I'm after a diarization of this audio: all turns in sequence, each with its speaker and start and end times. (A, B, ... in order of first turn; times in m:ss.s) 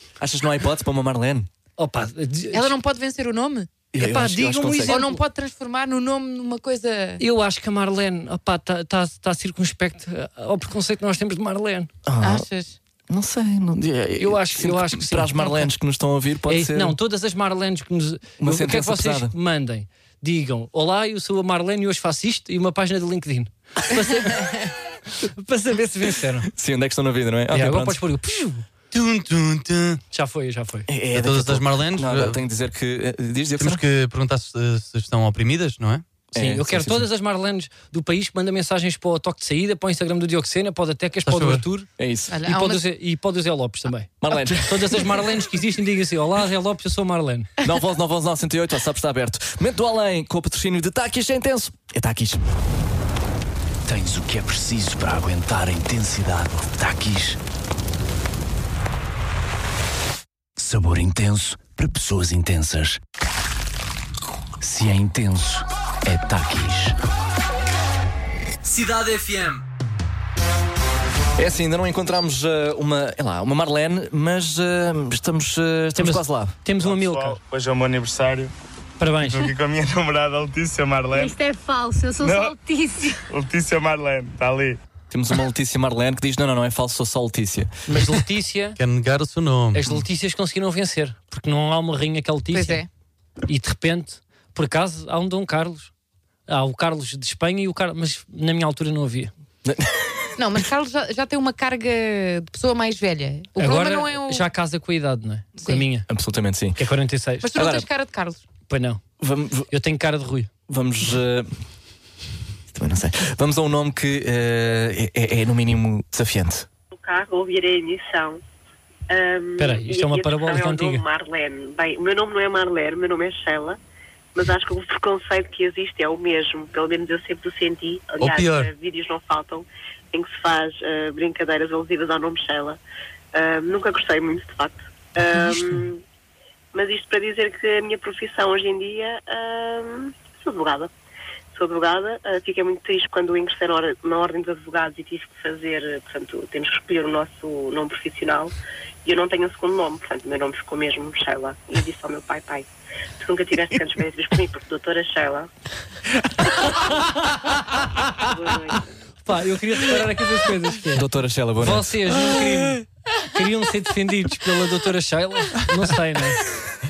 0:00.2-0:01.5 A
0:01.8-0:02.7 B
0:02.5-0:03.7 C
0:03.9-0:05.0 A
0:04.0-0:05.2 B
0:04.8-0:07.2 C
0:07.2-0:11.9 B
0:12.0-0:12.5 A
0:12.2-0:12.8 C
0:13.1-0:17.0 A
0:14.2-0:15.7 B
0:16.5-0:26.5 B
0:18.4-0:19.3 A
0:26.5-0:28.0 A
0:27.5-0:28.7 B
0:28.9-0:30.0 D
0:30.1-0:30.9 B
0:30.9-0:33.8 A
0:31.1-0:32.4 D
0:33.6-0:36.0 D
0:36.3-0:37.1 A
0:36.3-0:41.9 B
0:41.2-0:41.6 D
0:42.0-0:42.4 A
0:42.3-0:42.8 C
0:42.4-0:47.5 B
0:44.2-0:45.1 A
0:47.6-0:52.5 A
0:53.8-0:57.4 E
1:00.6-1:03.0 E
1:04.6-1:06.9 E
1:08.6-1:09.6 E
1:11.4-1:16.6 A
1:16.0-1:17.4 B
1:16.8-1:18.5 F
1:19.0-1:19.5 B
1:19.2-1:21.4 F
1:21.1-1:23.2 G
1:22.2-1:22.6 F
1:23.3-1:24.8 F
1:25.1-1:27.7 A
1:27.9-1:28.8 B
1:28.8-1:29.8 D
1:29.7-1:32.8 B
1:32.5-1:32.9 C
1:33.5-1:35.9 B
1:36.5-1:39.3 B
1:39.6-1:40.3 A
1:40.4-1:44.5 C
1:43.6-1:46.1 B
1:45.6-1:45.9 C
1:46.1-1:46.8 A
1:46.8-1:47.5 B
1:47.4-1:48.4 C
1:47.5-1:47.9 A
1:48.7-1:49.0 B
1:49.2-1:49.7 A
1:49.7-1:50.5 B
1:50.7-1:51.5 A
1:52.7-1:56.7 A
1:56.9-1:58.4 H
1:59.1-2:03.8 H
1:59.6-2:01.0 B
2:04.3-2:12.8 H
2:08.2-2:08.7 D
2:13.3-2:16.0 H
2:16.7-2:20.9 H
2:21.5-2:28.5 H
2:29.0-2:32.7 H
2:33.2-2:35.5 H
2:38.2-2:38.8 H
2:39.2-2:41.1 B
2:40.9-2:42.0 A
2:41.6-2:46.4 B